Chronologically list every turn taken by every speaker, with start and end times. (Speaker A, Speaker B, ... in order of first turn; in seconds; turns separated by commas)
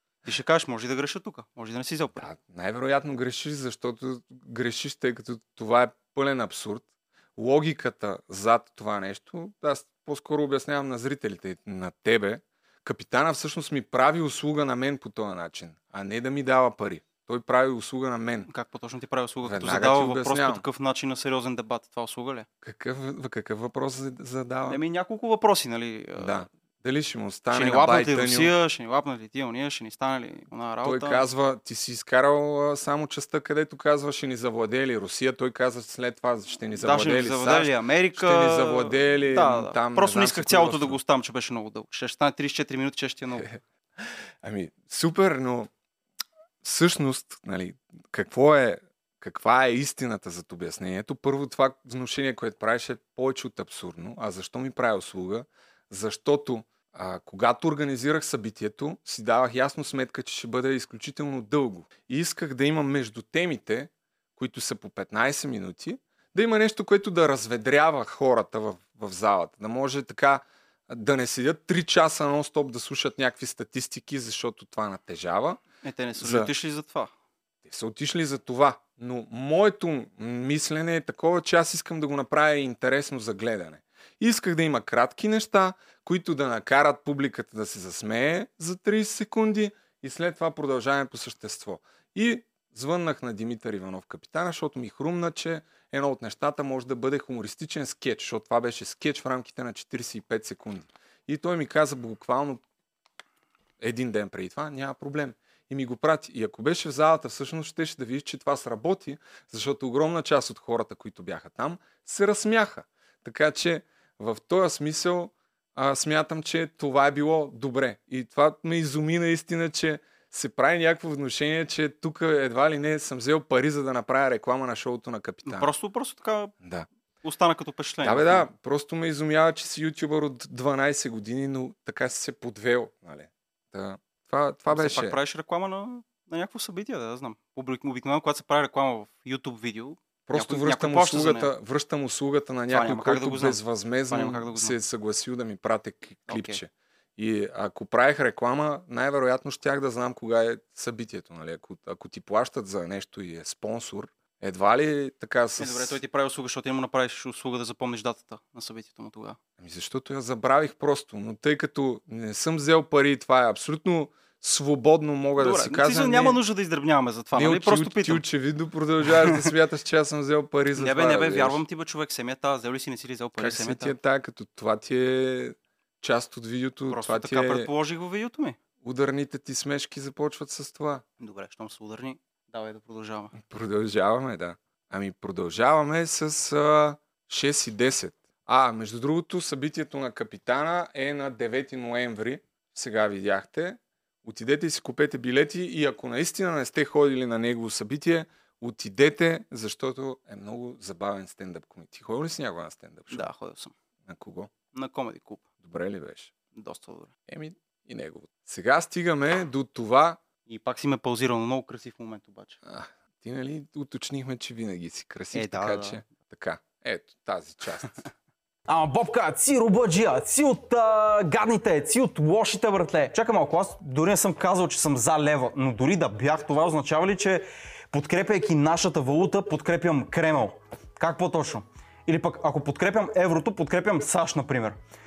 Speaker A: 0.2-2.3, Speaker B: 2.1-18.5, Speaker A: 18.5-22.5, Speaker B: 19.4-20.6, Speaker B: 22.6-24.8, Speaker A: 24.7-26.4, Speaker B: 26.2-28.5, Speaker A: 27.5-31.2, Speaker B: 30.8-41.0, Speaker A: 36.8-43.5, Speaker B: 43.3-45.7, Speaker B: 46.6-75.6, Speaker A: 75.8-77.1, Speaker B: 76.2-76.5, Speaker B: 77.7-102.6, Speaker B: 103.8-125.7, Speaker A: 125.5-126.5, Speaker B: 126.6-126.9, Speaker A: 127.2-128.5, Speaker B: 128.0-135.2, Speaker A: 134.7-141.5, Speaker B: 140.3-156.0, Speaker A: 142.7-144.8, Speaker A: 146.3-146.6, Speaker A: 155.6-159.4, Speaker B: 159.6-166.4, Speaker A: 165.4-168.2, Speaker B: 167.4-171.6, Speaker A: 169.1-169.5, Speaker A: 170.8-173.9, Speaker B: 173.4-177.7, Speaker A: 176.9-178.6, Speaker B: 178.8-181.0, Speaker A: 181.2-183.3, Speaker B: 183.3-203.3, Speaker A: 203.1-203.7, Speaker B: 204.1-204.5, Speaker A: 204.7-205.4, Speaker B: 205.6-206.3, Speaker A: 206.5-207.1, Speaker B: 207.3-210.2, Speaker A: 210.5-212.6, Speaker B: 212.6-218.1, Speaker A: 215.3-216.1, Speaker C: 218.7-234.8